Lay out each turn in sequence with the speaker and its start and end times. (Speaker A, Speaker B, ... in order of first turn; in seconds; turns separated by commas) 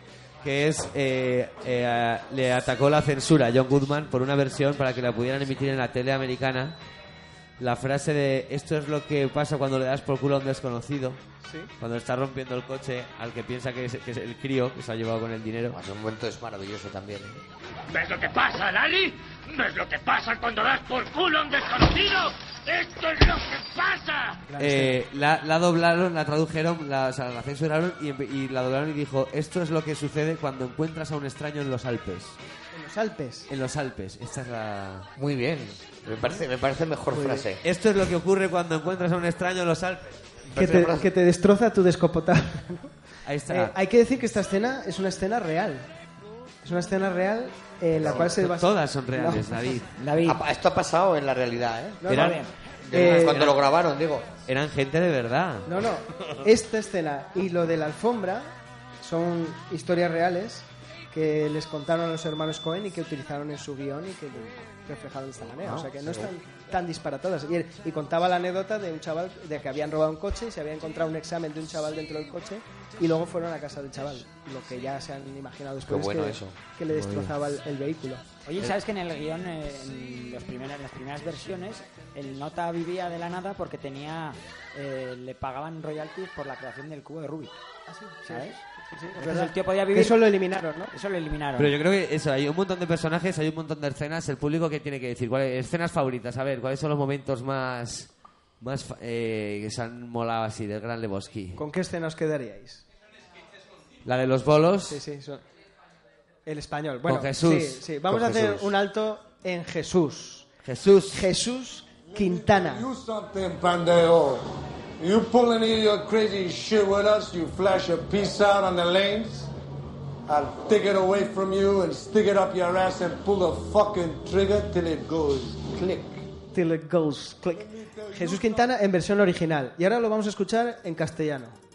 Speaker A: 0.4-6.8, Speaker A: 7.6-11.2, Speaker B: 11.4-11.7, Speaker A: 11.8-15.8, Speaker C: 15.7-17.4, Speaker D: 17.9-24.5, Speaker B: 24.5-25.0, Speaker A: 24.6-32.4, Speaker B: 32.7-33.5, Speaker A: 33.5-35.1, Speaker C: 35.2-37.6, Speaker B: 37.1-37.5, Speaker A: 37.6-40.2, Speaker C: 40.5-41.1, Speaker B: 40.5-42.9, Speaker A: 43.2-43.7, Speaker B: 43.5-45.9, Speaker B: 46.6-49.8, Speaker C: 48.0-48.3, Speaker A: 48.1-49.9, Speaker E: 50.0-50.4, Speaker C: 50.2-52.2, Speaker B: 52.0-53.5, Speaker A: 52.1-52.4, Speaker E: 52.1-52.5, Speaker C: 52.9-54.3, Speaker A: 52.9-53.6, Speaker A: 54.5-55.7, Speaker B: 55.7-78.2, Speaker C: 65.6-66.3, Speaker C: 75.9-77.3, Speaker E: 78.5-87.6, Speaker B: 87.9-90.9, Speaker E: 88.3-88.6, Speaker E: 89.2-90.2, Speaker E: 90.9-91.7, Speaker A: 91.6-98.1, Speaker A: 98.6-101.6, Speaker B: 101.6-102.8, Speaker A: 104.0-105.0, Speaker B: 104.9-105.4, Speaker B: 106.5-110.5, Speaker A: 107.0-108.7, Speaker A: 110.6-111.3, Speaker B: 111.1-112.9, Speaker F: 112.1-114.4, Speaker F: 115.0-119.5, Speaker F: 120.3-126.2, Speaker B: 126.5-131.6, Speaker F: 127.6-128.7